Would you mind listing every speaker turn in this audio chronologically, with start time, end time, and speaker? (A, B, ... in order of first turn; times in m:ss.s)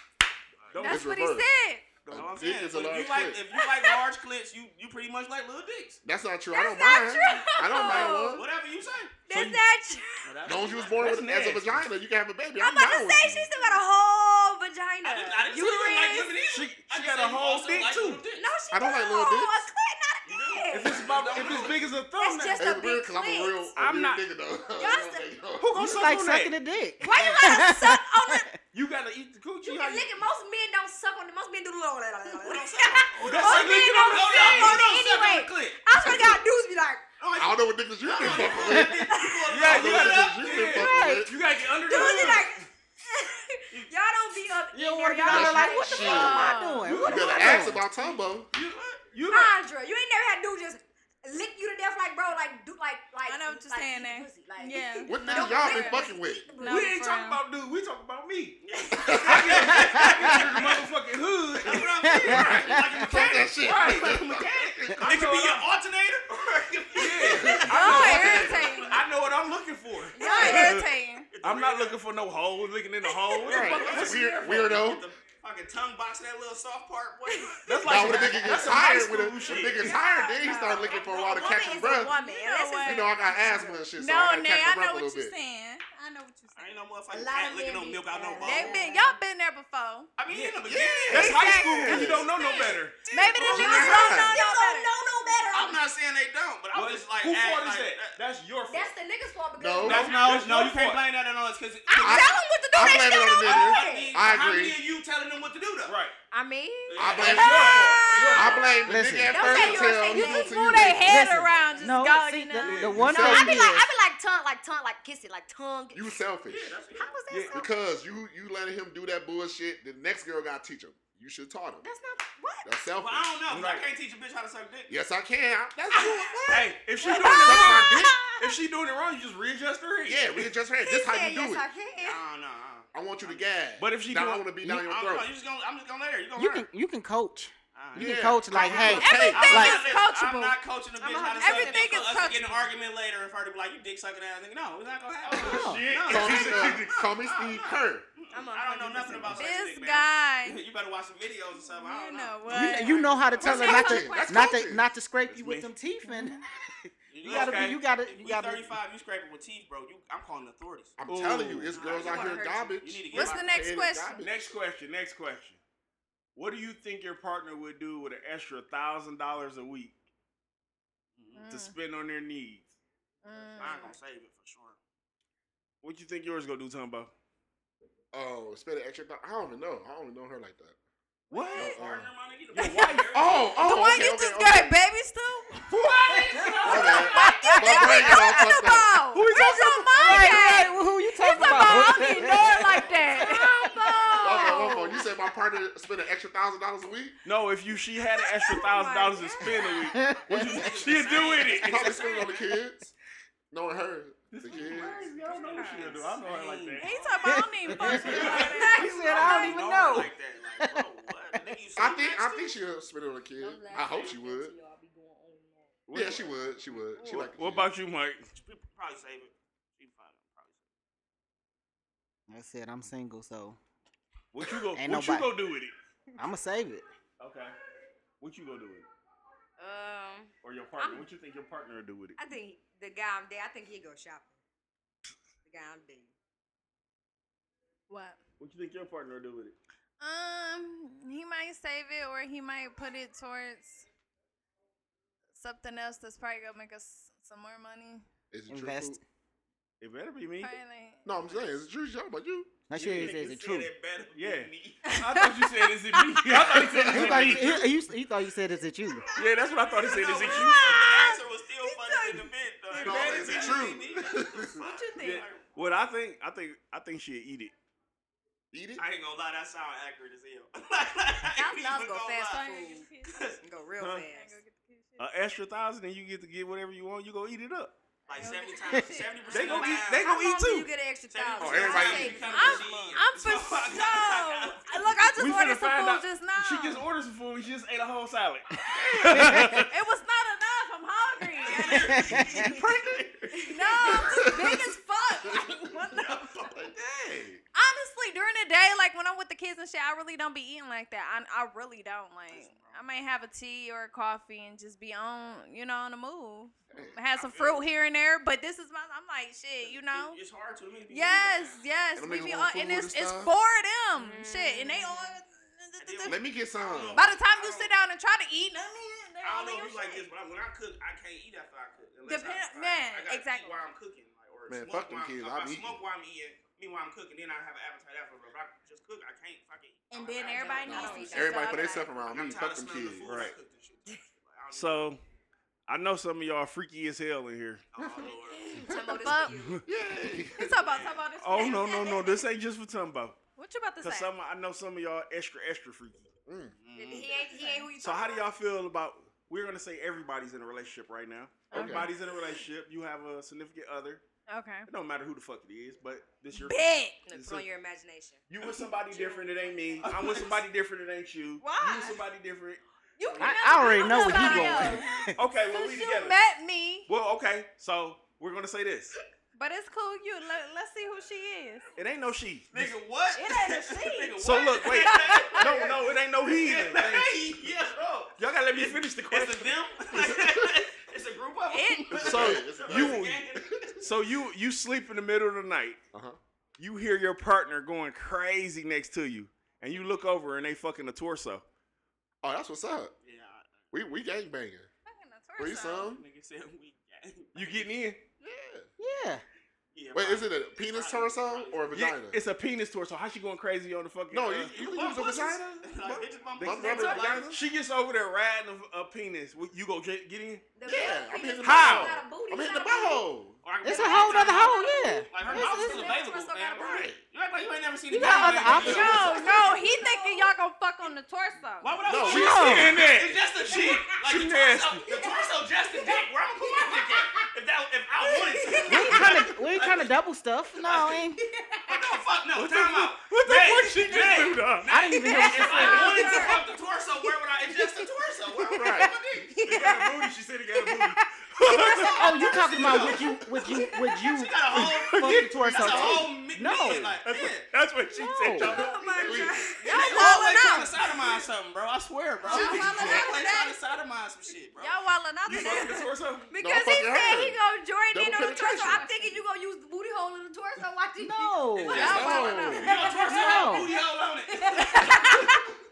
0:00.7-0:01.1 A
0:00.8-0:02.0 B
0:00.8-0:01.5 C
0:02.0-0:02.5 A
0:02.1-0:03.4 C
0:02.1-0:06.0 D
0:06.0-0:08.4 C
0:06.5-0:08.4 E
0:06.6-0:08.3 B
0:07.9-0:09.2 D
0:09.3-0:10.3 E
0:09.3-0:09.6 A
0:10.2-0:11.1 D
0:10.4-0:13.5 C
0:11.0-0:11.8 A
0:12.6-0:16.3 E
0:15.0-0:18.5 D
0:16.5-0:18.2 A
0:18.4-0:21.1 E
0:18.7-0:19.7 C
0:20.2-0:21.8 D
0:20.7-0:22.7 A
0:21.3-0:21.7 C
0:22.1-0:23.7 E
0:22.6-0:26.1 C
0:23.8-0:24.2 A
0:24.7-0:25.3 E
0:25.6-0:26.5 A
0:25.7-0:28.6 F
0:27.0-0:28.5 E
0:28.7-0:30.1 A
0:29.6-0:37.0 E
0:32.3-0:35.8 D
0:33.2-0:34.9 A
0:37.2-0:40.8 D
0:37.4-0:39.0 C
0:39.1-0:39.4 E
0:39.5-0:42.6 A
0:39.6-0:41.4 C
0:40.7-0:41.3 F
0:41.8-0:47.5 E
0:44.7-0:47.8 F
0:45.3-0:48.5 C
0:46.1-0:47.0 B
0:46.8-0:47.7 A
0:48.5-0:49.0 D
0:48.5-0:49.6 A
0:49.3-0:56.9 E
0:53.2-0:56.1 B
0:55.1-0:56.6 C
0:56.6-0:57.4 B
0:56.6-1:05.6 A
0:58.6-1:00.9 D
0:59.0-0:59.9 C
0:59.7-1:00.4 F
1:01.6-1:09.0 D
1:01.8-1:05.0 C
1:02.0-1:03.1 F
1:06.9-1:10.9 A
1:07.2-1:08.6 C
1:07.7-1:09.0 B
1:10.1-1:10.8 E
1:10.2-1:11.3 B
1:10.3-1:12.0 D
1:11.4-1:14.9 A
1:13.1-1:13.8 B
1:13.3-1:18.8 D
1:13.4-1:15.0 C
1:17.4-1:18.5 B
1:17.6-1:19.9 A
1:17.8-1:22.1 C
1:19.5-1:19.9 D
1:19.8-1:26.8 B
1:19.8-1:23.8 E
1:22.8-1:25.3 C
1:26.5-1:28.8 D
1:27.1-1:29.2 E
1:28.4-1:30.1 B
1:30.2-1:34.1 D
1:30.3-1:33.0 A
1:30.7-1:32.3 C
1:31.2-1:34.9 B
1:31.2-1:35.8 E
1:33.5-1:34.4 C
1:35.5-1:38.2 D
1:36.7-1:38.9 A
1:38.7-1:40.1 E
1:39.6-1:40.1 C
1:39.8-1:41.0 A
1:39.8-1:42.3 D
1:41.9-1:44.2 E
1:42.0-1:44.8 C
1:43.4-1:46.0 D
1:45.8-1:46.1 A
1:46.3-1:48.4 E
1:46.9-1:48.9 D
1:47.0-1:51.2 C
1:47.2-1:48.7 A
1:48.9-1:53.9 F
1:49.3-1:52.0 E
1:49.4-1:53.0 B
1:52.6-1:53.2 A
1:52.9-1:53.7 C
1:53.0-1:56.2 E
1:55.9-1:56.8 C
1:56.4-1:57.1 D
1:56.9-1:57.7 E
1:57.3-1:57.6 A
1:57.5-2:01.8 C
2:01.8-2:02.7 E
2:02.6-2:03.4 C
2:03.0-2:04.9 D
2:03.5-2:03.8 A
2:04.9-2:08.2 C
2:05.9-2:08.5 E
2:06.5-2:10.5 A
2:10.0-2:11.6 C
2:10.8-2:12.2 E
2:12.0-2:13.4 D
2:12.9-2:15.3 C
2:13.8-2:14.6 A
2:14.8-2:16.7 D
2:16.4-2:19.8 F
2:17.7-2:33.6 D
2:17.9-2:19.7 C
2:18.6-2:20.6 B
2:21.0-2:22.0 E
2:21.4-2:22.7 B
2:25.2-2:27.1 A
2:25.4-2:25.8 F
2:26.0-2:28.0 C
2:28.3-2:29.6 E
2:29.2-2:30.6 B
2:31.7-2:34.4 B
2:32.5-2:38.8 F
2:33.4-2:34.9 C
2:35.3-2:35.7 A
2:37.1-2:41.0 D
2:37.2-2:37.8 A
2:41.0-2:44.4 C
2:41.1-2:41.9 A
2:41.7-2:43.7 D
2:42.0-2:42.7 E
2:43.1-2:44.2 B
2:44.2-2:45.6 A
2:46.3-2:50.0 A
2:51.2-2:51.5 D
2:51.4-2:51.8 B
2:51.5-2:52.7 A
2:53.2-2:54.0 B
2:53.6-2:54.8 D
2:55.8-2:57.1 A
2:58.1-3:00.8 C
3:01.3-3:01.8 B
3:01.3-3:01.8 A
3:01.5-3:03.6 D
3:01.5-3:02.1 C
3:02.5-3:03.2 A
3:02.6-3:02.9 B
3:03.1-3:04.7 C
3:03.6-3:05.8 B
3:05.7-3:07.0 A
3:06.1-3:07.4 D
3:06.4-3:08.4 F
3:06.6-3:15.1 B
3:06.6-3:08.9 C
3:09.1-3:10.6 A
3:09.3-3:14.1 F
3:11.5-3:11.8 A
3:12.7-3:13.3 D
3:13.6-3:14.7 E
3:14.2-3:17.2 C
3:17.2-3:22.2 A
3:18.1-3:20.0 B
3:19.9-3:20.7 F
3:20.3-3:22.6 D
3:20.6-3:21.0 C
3:21.5-3:22.9 C
3:23.5-3:25.0 C
3:24.3-3:27.0 A
3:24.7-3:32.6 D
3:24.8-3:26.2 B
3:26.8-3:29.6 B
3:27.2-3:31.4 F
3:27.8-3:29.7 A
3:31.8-3:34.5 C
3:33.4-3:35.7 E
3:35.9-3:36.4 A
3:35.9-3:37.7 C
3:37.0-3:38.3 A
3:38.4-3:40.6 D
3:42.3-3:43.6 F
3:44.3-3:45.7 A
3:44.7-3:45.3 F
3:46.2-3:46.8 F
3:47.2-3:47.5 A
3:48.2-3:48.9 A
3:49.6-3:51.1 E
3:50.4-3:52.2 A
3:52.2-3:54.4 E
3:55.4-3:56.1 E
3:57.9-3:58.2 B
3:58.4-3:59.6 A
4:00.0-4:03.9 B
4:05.3-4:08.0 B
4:08.3-4:09.0 C
4:08.5-4:09.0 F
4:09.8-4:10.5 A
4:10.4-4:11.0 B
4:11.0-4:12.6 C
4:12.7-4:13.7 F
4:12.7-4:14.9 D
4:14.1-4:17.6 A
4:14.9-4:16.4 B
4:16.3-4:17.6 C
4:16.8-4:19.0 F
4:19.1-4:20.7 A
4:19.2-4:23.2 B
4:19.8-4:25.6 D
4:22.8-4:23.7 A
4:22.8-4:24.6 C
4:24.6-4:25.2 B
4:25.0-4:27.5 A
4:28.5-4:28.8 C
4:28.8-4:32.5 D
4:31.3-4:32.8 E
4:32.3-4:33.2 B
4:33.0-4:33.4 D
4:33.4-4:34.4 E
4:33.8-4:34.0 A
4:34.0-4:35.1 B
4:35.0-4:37.8 A
4:38.1-4:40.1 D
4:38.1-4:39.8 B
4:39.3-4:43.0 E
4:39.3-4:40.7 A
4:41.1-4:44.9 D
4:41.4-4:42.3 C
4:41.7-4:46.9 B
4:45.2-4:49.7 A
4:48.7-4:52.6 B
4:49.1-4:49.6 F
4:51.4-4:53.0 D
4:51.7-4:53.5 A
4:51.7-4:52.6 F
4:53.3-4:56.5 B
4:53.8-4:54.3 D
4:53.9-4:54.7 C
4:55.2-4:55.6 C
4:55.9-4:56.6 D
4:56.5-4:57.4 C
4:57.5-5:10.2 B
5:02.3-5:02.8 D
5:06.7-5:07.0 C
5:07.2-5:07.6 D
5:09.6-5:11.6 D
5:10.9-5:16.2 B
5:12.0-5:13.3 C
5:14.0-5:15.2 E
5:15.8-5:17.7 D
5:16.0-5:17.0 C
5:16.9-5:20.1 B
5:19.2-5:31.4 D
5:22.1-5:23.6 B
5:24.5-5:25.8 C
5:29.9-5:31.9 B
5:30.3-5:31.8 E
5:30.7-5:33.2 C
5:32.0-5:34.8 D
5:33.0-5:33.3 A
5:34.5-5:35.0 A
5:35.7-5:37.6 A
5:37.7-5:38.6 D
5:38.3-5:39.6 E
5:38.7-5:39.4 B
5:39.6-5:40.7 C
5:40.3-5:42.3 B
5:40.7-5:41.5 D
5:41.2-5:43.2 A
5:43.4-5:44.1 B
5:43.8-5:46.1 A
5:46.3-5:46.6 C
5:46.6-5:47.2 D
5:46.7-5:48.3 E
5:47.2-5:47.7 B
5:47.8-5:54.0 A
5:51.5-5:51.9 C
5:51.5-5:51.9 B
5:54.3-5:54.7 B
5:54.7-5:57.4 A
5:56.3-5:57.0 B
5:57.0-5:58.2 E
5:58.3-6:02.6 A
5:58.9-5:59.8 E
5:59.8-6:00.4 D
6:01.4-6:02.0 B
6:03.0-6:06.9 B
6:03.2-6:05.2 F
6:04.0-6:04.6 D
6:04.1-6:04.6 A
6:05.1-6:06.2 A
6:06.9-6:08.9 A
6:09.3-6:11.7 B
6:11.8-6:12.8 A
6:12.5-6:23.8 D
6:13.1-6:15.6 B
6:14.2-6:17.1 A
6:18.2-6:19.6 A
6:19.9-6:20.5 C
6:21.5-6:22.0 B
6:21.9-6:23.2 A
6:22.0-6:23.8 C
6:23.8-6:25.8 A
6:25.9-6:26.2 C
6:26.6-6:31.4 A
6:32.2-6:32.9 C
6:33.0-6:33.7 D
6:33.7-6:34.7 C
6:34.8-6:35.9 B
6:35.4-6:36.0 C
6:35.8-6:37.7 D
6:37.3-6:38.0 A
6:38.2-6:38.7 C
6:38.8-6:39.2 F
6:39.7-6:41.8 D
6:39.9-6:42.2 C
6:41.7-6:44.6 A
6:44.1-6:47.4 C
6:44.3-6:47.3 D
6:46.4-6:50.5 A
6:46.7-6:47.0 E
6:50.6-6:53.0 E
6:50.6-6:53.4 C
6:51.4-6:51.9 A
6:53.4-6:59.4 D
6:53.6-6:55.8 F
6:54.2-6:54.6 E
6:55.1-6:56.9 E
6:56.6-6:57.0 C
6:57.9-6:59.1 F
6:58.5-6:59.0 C
6:58.5-7:01.8 B
6:59.0-7:00.3 E
7:01.6-7:09.9 D
7:01.8-7:02.7 C
7:02.1-7:02.8 F
7:02.3-7:03.2 A
7:03.8-7:04.9 A
7:04.9-7:07.3 E
7:08.0-7:09.0 E
7:08.7-7:11.2 F
7:10.6-7:11.0 D
7:11.4-7:11.8 E
7:11.7-7:19.3 D
7:12.3-7:16.2 A
7:14.6-7:16.1 F
7:15.1-7:16.4 E
7:15.1-7:16.4 B
7:18.5-7:19.0 C
7:19.3-7:22.1 E
7:19.4-7:22.2 A
7:21.6-7:27.5 D
7:21.8-7:27.0 F
7:22.6-7:23.0 C
7:24.6-7:25.7 A
7:25.2-7:26.1 C
7:27.0-7:29.3 A
7:28.0-7:29.6 C
7:28.4-7:30.9 E
7:29.1-7:34.8 D
7:29.6-7:30.8 B
7:32.2-7:33.6 B
7:32.3-7:32.9 E
7:32.3-7:33.0 C
7:34.6-7:35.9 B
7:35.2-7:36.3 A
7:35.3-7:45.4 E
7:36.4-7:37.4 C
7:37.9-7:38.8 C
7:38.7-7:39.2 B
7:41.0-7:42.0 F
7:41.6-7:45.3 D
7:41.7-7:43.2 B
7:41.7-7:42.8 C
7:43.1-7:43.7 F
7:44.7-7:45.3 B